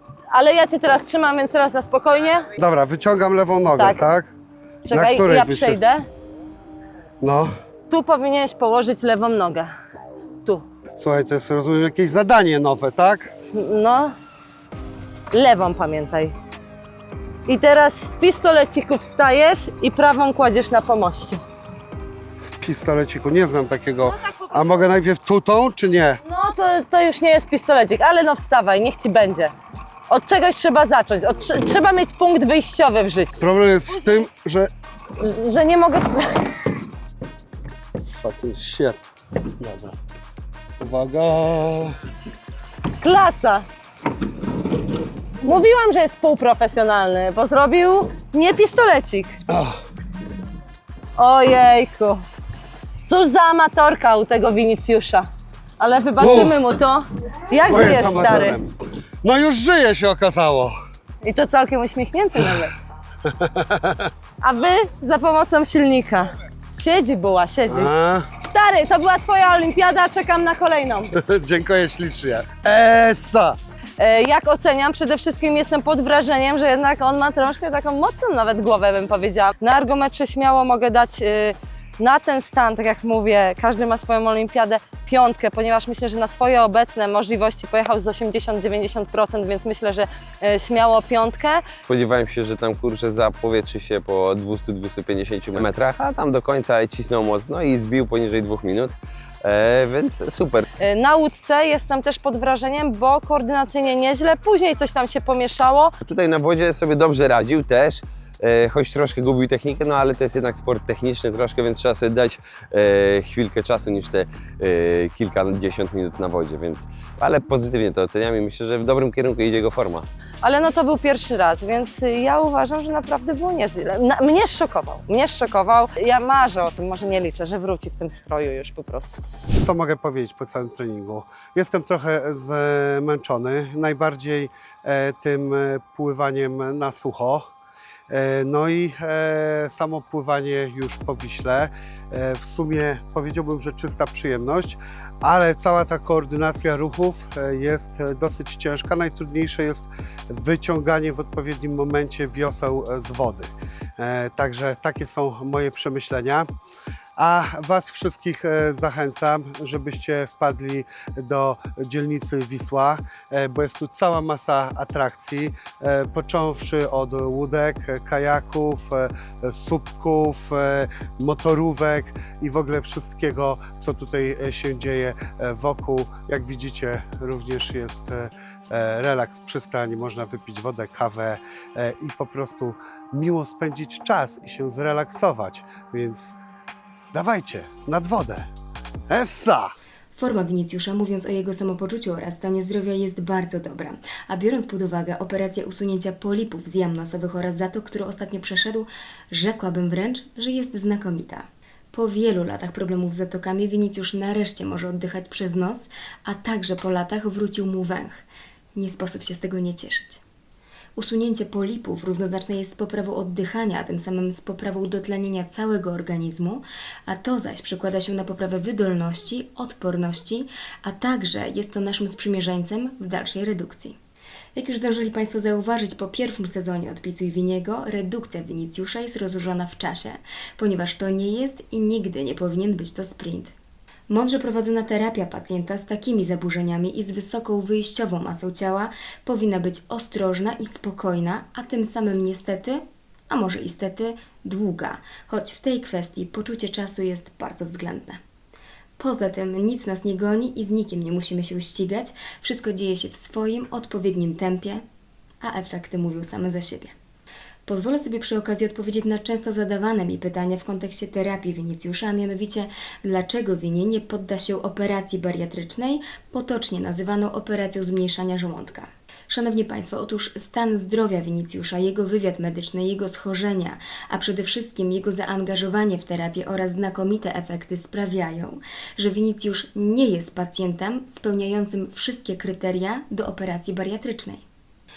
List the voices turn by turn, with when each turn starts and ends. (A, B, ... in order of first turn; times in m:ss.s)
0:00.3-0:02.5 A
0:02.6-0:04.3 B
0:03.7-0:04.1 A
0:04.9-0:06.0 A
0:04.9-0:05.8 B
0:07.2-0:07.5 B
0:07.9-0:09.7 A
0:11.0-0:13.3 B
0:13.5-0:14.2 A
0:15.3-0:16.3 A
0:17.5-0:21.4 A
0:22.6-0:26.2 B
0:24.1-0:24.8 A
0:26.2-0:29.5 A
0:30.1-0:34.2 A
0:33.4-0:34.7 B
0:35.2-0:36.5 A
0:38.0-0:39.0 B
0:39.6-0:40.0 B
0:40.8-0:42.0 B
0:43.0-0:43.6 A
0:45.4-0:49.4 A
0:49.5-0:49.8 B
0:51.2-0:52.2 A
0:53.1-0:55.3 A
0:55.8-0:58.6 A
0:56.2-0:56.6 B
0:57.7-1:00.7 B
1:01.2-1:02.7 A
1:03.2-1:04.1 B
1:04.4-1:11.2 A
1:07.7-1:08.3 B
1:11.1-1:13.6 B
1:14.0-1:31.7 A
1:31.9-1:40.7 C
1:40.8-1:45.9 A
1:46.0-2:00.0 C
2:00.4-2:09.2 A
2:09.5-2:17.5 B
2:18.1-2:36.5 B
2:37.2-3:06.3 B
3:07.1-3:08.5 B
3:09.1-3:09.7 B
3:10.1-3:28.2 D
3:28.7-3:30.2 D
3:31.0-3:44.0 D
3:44.5-3:53.5 D
3:54.1-4:08.2 D
4:09.0-4:14.8 D
4:15.4-4:16.9 D
4:17.6-4:44.4 D